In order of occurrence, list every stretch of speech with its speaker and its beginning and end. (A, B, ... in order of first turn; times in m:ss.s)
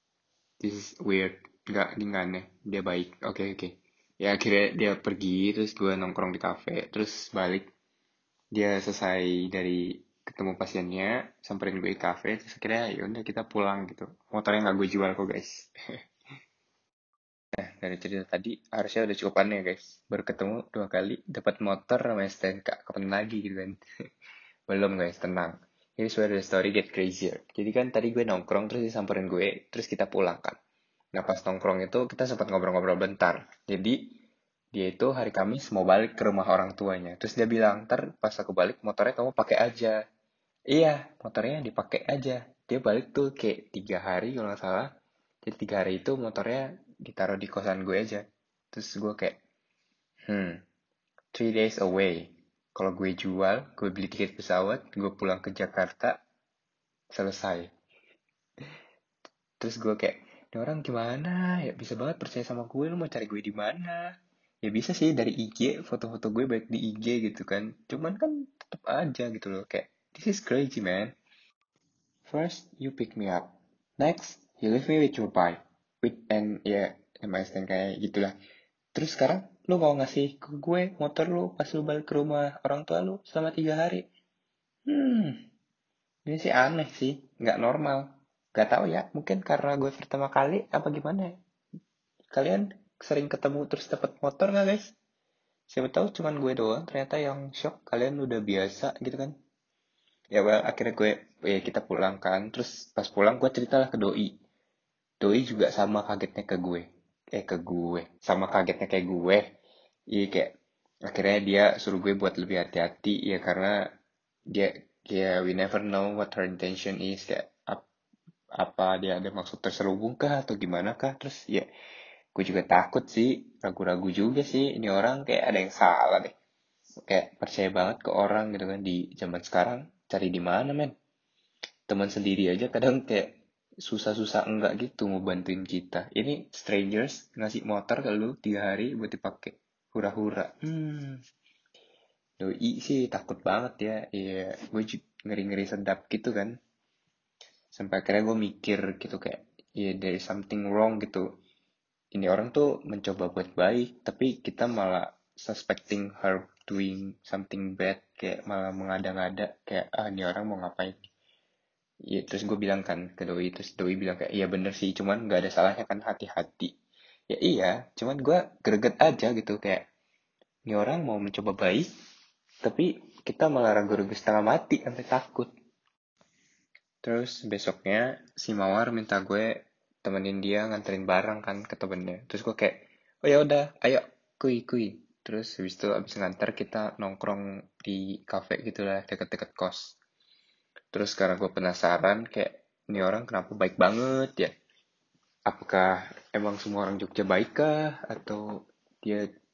0:00.6-0:07.7 A
0:08.5-0:15.7 A
0:17.6-0:23.8 A
0:24.7-0:30.6 A
0:31.1-0:34.1 A
0:34.7-0:40.0 A
0:40.7-0:44.9 A
0:45.4-0:49.4 A
0:50.3-0:50.6 A
0:51.3-0:56.2 A
0:57.1-0:57.7 A
0:59.6-1:04.1 A
1:04.6-1:11.1 A
1:12.3-1:18.3 A
1:19.0-1:24.1 A
1:24.9-1:25.4 A
1:26.3-1:31.4 A
1:32.3-1:35.0 A
1:35.7-1:39.3 A
1:40.3-1:44.4 A
1:45.2-1:49.4 A
1:50.1-1:50.5 A
1:51.1-1:53.8 A
1:54.5-1:57.8 A
1:58.6-2:01.7 A
2:02.4-2:06.3 A
2:07.1-2:10.9 A
2:11.9-2:21.2 A
2:22.4-2:26.6 A
2:27.7-2:31.3 A
2:32.1-2:41.0 A
2:42.1-2:46.7 A
2:47.3-2:49.8 A
2:50.7-2:51.9 A
2:52.6-2:55.5 A
2:57.0-3:10.0 A
3:10.9-3:14.5 A
3:15.5-3:18.4 A